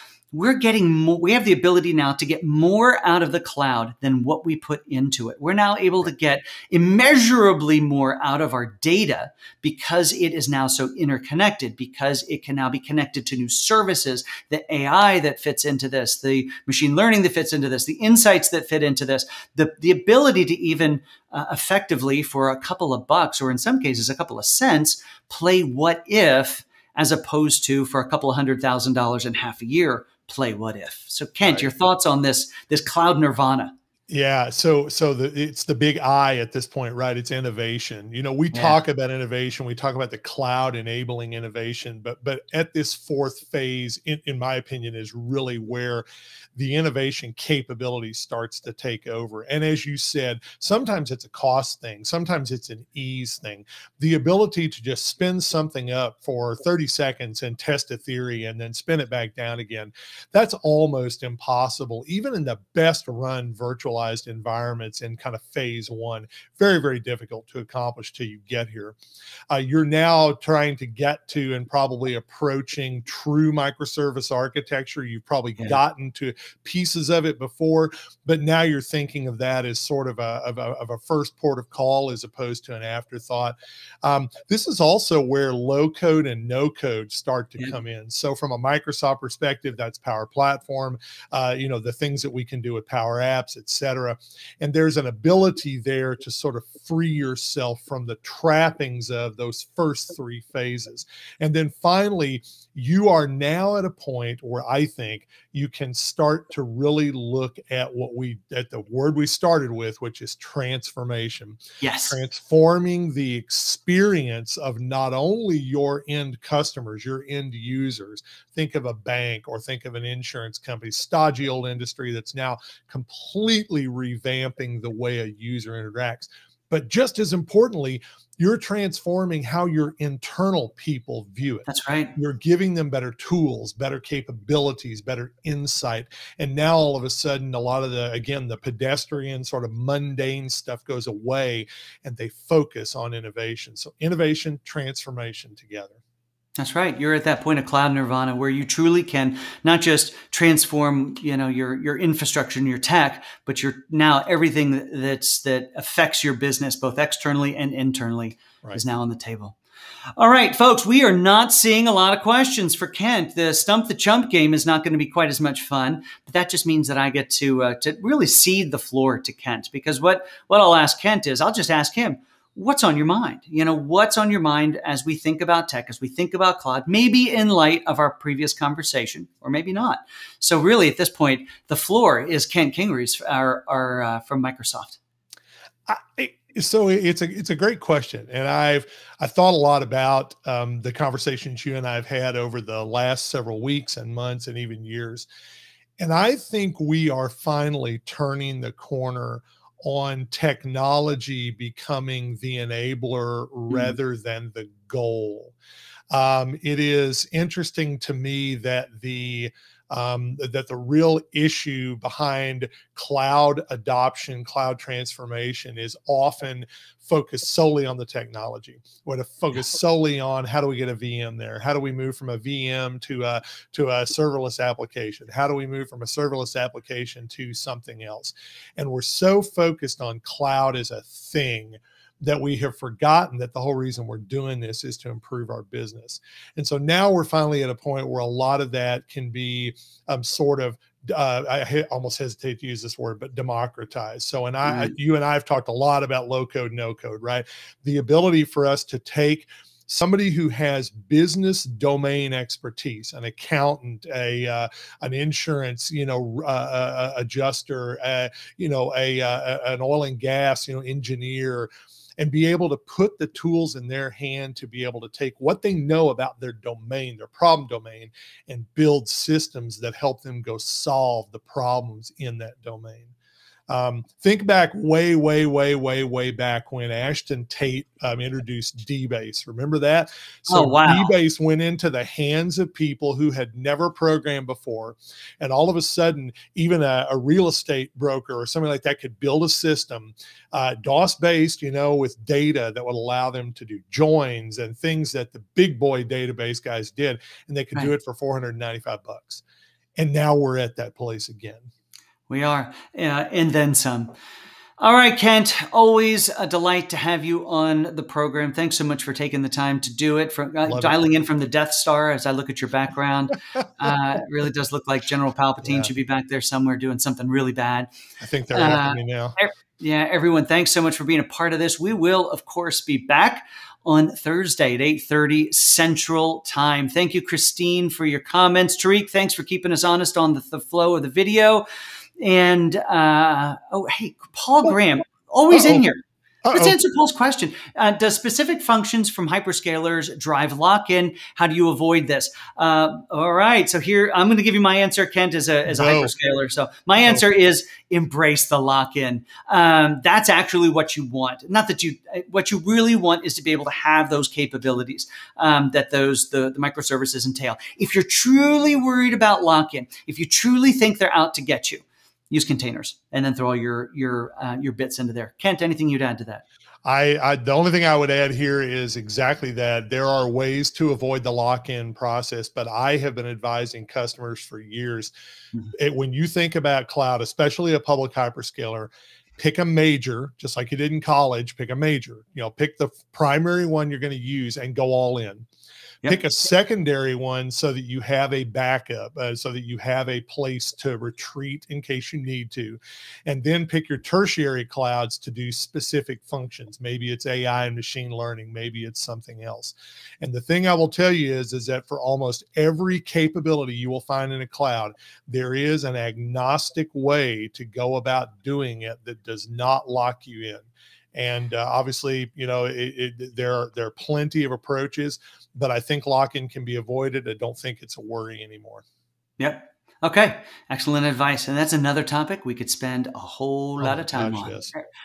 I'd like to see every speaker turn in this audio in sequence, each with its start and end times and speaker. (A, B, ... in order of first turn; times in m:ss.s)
0:00.3-0:33.8 A
0:31.4-0:31.7 B
0:34.1-1:09.0 B
0:38.5-0:38.8 A
1:09.5-2:26.0 B
1:51.8-1:52.2 A
2:11.7-2:12.2 A
2:26.6-2:39.6 A
2:40.2-3:05.0 A
3:05.9-3:15.3 B
3:16.0-3:25.6 B
3:23.7-3:24.0 A
3:26.1-4:33.1 B
4:04.6-4:05.0 A
4:33.7-4:59.4 B
4:40.5-4:41.1 A
5:00.0-5:01.7 B
5:02.3-5:04.1 A
5:04.8-5:17.9 A
5:10.7-5:11.0 B
5:15.6-5:15.9 B
5:18.2-5:19.4 B
5:18.5-5:31.6 A
5:32.2-6:06.4 A
5:35.5-5:35.8 B
5:36.4-5:36.8 B
5:45.7-5:46.1 B
6:06.8-6:15.1 B
6:15.8-6:25.5 B
6:26.1-6:58.8 B
6:59.4-7:04.8 A
7:03.8-7:04.7 B